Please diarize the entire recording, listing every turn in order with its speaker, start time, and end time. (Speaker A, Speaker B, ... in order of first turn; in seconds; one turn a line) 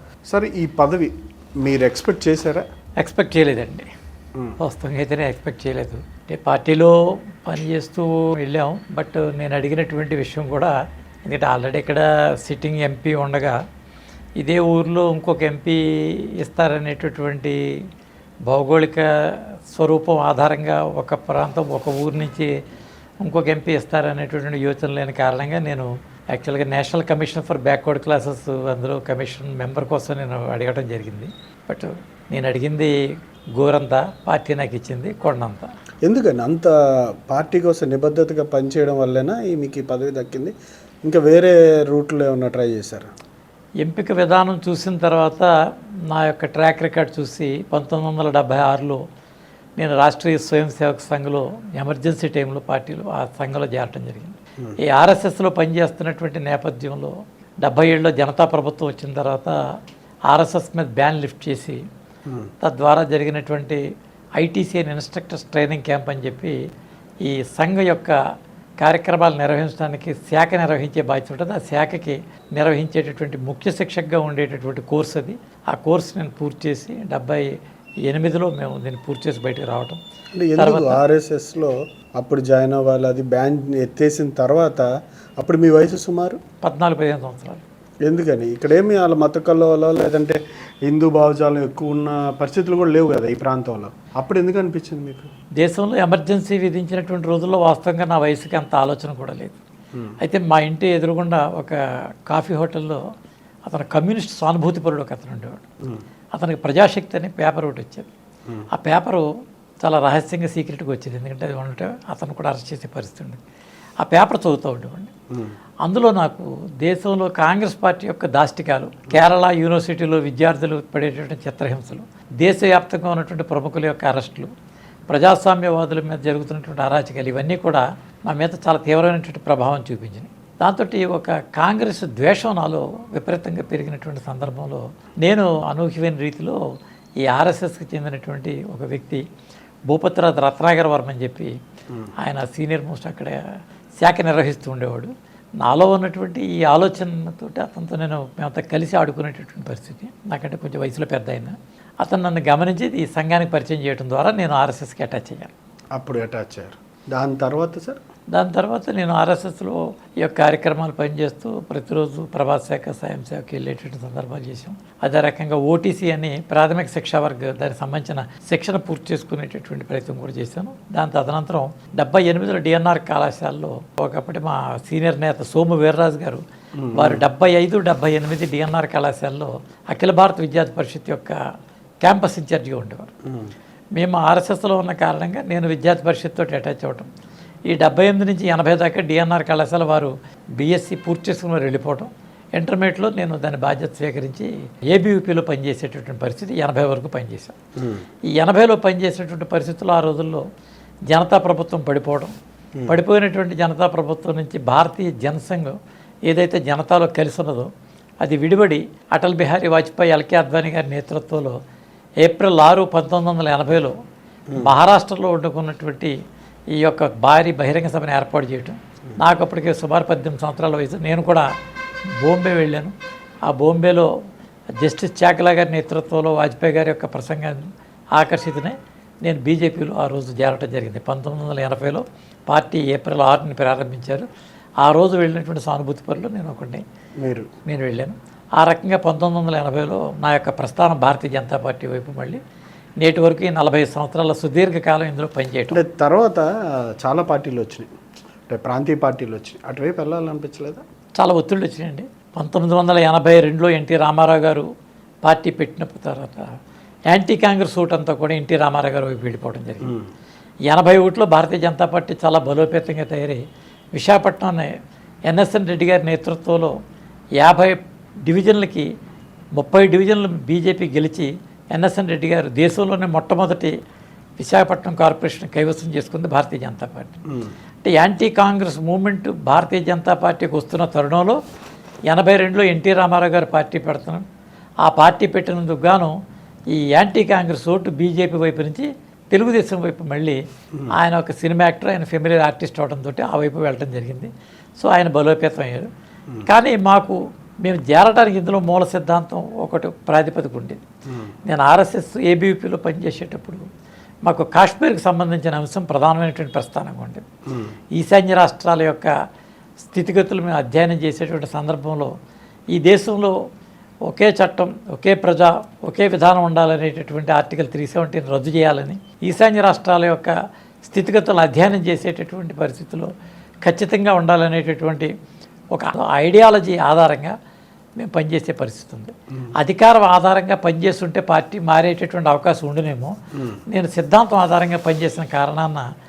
Speaker A: 0.3-2.6
Speaker B: 3.0-3.9
Speaker B: 4.6-10.7
Speaker B: 11.2-13.6
Speaker B: 14.4-17.6
Speaker B: 18.5-22.5
Speaker B: 23.2-32.9
Speaker B: 33.5-35.7
Speaker A: 36.0-36.7
Speaker A: 37.3-40.5
Speaker A: 41.0-43.1
Speaker B: 43.8-45.5
Speaker B: 46.1-49.0
Speaker B: 49.8-59.5
Speaker B: 60.3-61.8
Speaker A: 62.3-62.5
Speaker B: 62.6-63.8
Speaker B: 64.4-66.6
Speaker B: 67.2-68.2
Speaker B: 68.8-77.5
Speaker B: 78.0-80.0
Speaker A: 80.3-86.4
Speaker B: 80.5-81.0
Speaker B: 86.6-87.6
Speaker A: 88.0-95.3
Speaker B: 95.6-99.6
Speaker B: 100.2-103.0
Speaker B: 103.7-105.6
Speaker B: 106.3-108.1
Speaker B: 108.7-109.2
Speaker B: 109.8-113.4
Speaker B: 114.0-115.1
Speaker B: 115.8-124.5
Speaker B: 125.1-136.6
Speaker B: 137.2-139.2
Speaker B: 139.9-141.6
Speaker B: 142.2-143.4
Speaker B: 144.0-155.5
Speaker A: 155.9-158.0
Speaker B: 158.3-176.4
Speaker A: 176.8-177.3
Speaker B: 176.9-181.4
Speaker B: 182.0-183.1
Speaker A: 183.2-183.5
Speaker B: 183.9-187.1
Speaker B: 187.7-197.5
Speaker B: 198.3-200.4
Speaker B: 201.1-202.3
Speaker B: 202.9-205.8
Speaker B: 206.3-207.7
Speaker B: 208.2-211.6
Speaker B: 212.2-213.9
Speaker B: 214.6-216.1
Speaker B: 216.7-221.5
Speaker B: 222.2-222.9
Speaker B: 223.4-224.1
Speaker B: 224.8-227.6
Speaker B: 228.1-234.3
Speaker B: 234.8-236.8
Speaker A: 237.2-237.5
Speaker B: 237.7-242.4
Speaker B: 243.0-245.8
Speaker A: 245.7-247.9
Speaker A: 248.5-250.8
Speaker B: 251.2-254.7
Speaker B: 255.2-256.5
Speaker B: 257.1-259.9
Speaker B: 260.7-264.7
Speaker B: 265.3-266.7
Speaker B: 267.4-268.9
Speaker B: 269.6-273.7
Speaker B: 274.4-277.2
Speaker A: 277.3-277.5
Speaker B: 277.8-281.4
Speaker B: 282.1-284.2
Speaker B: 284.8-286.1
Speaker B: 286.7-295.9
Speaker B: 296.4-300.8
Speaker A: 301.1-301.3
Speaker B: 301.4-303.6
Speaker B: 304.2-307.2
Speaker A: 307.5-307.8
Speaker B: 307.9-309.1
Speaker B: 309.8-312.1
Speaker B: 312.7-313.3
Speaker B: 314.1-323.1
Speaker B: 323.6-325.1
Speaker B: 325.7-327.3
Speaker B: 328.0-333.1
Speaker B: 333.7-335.8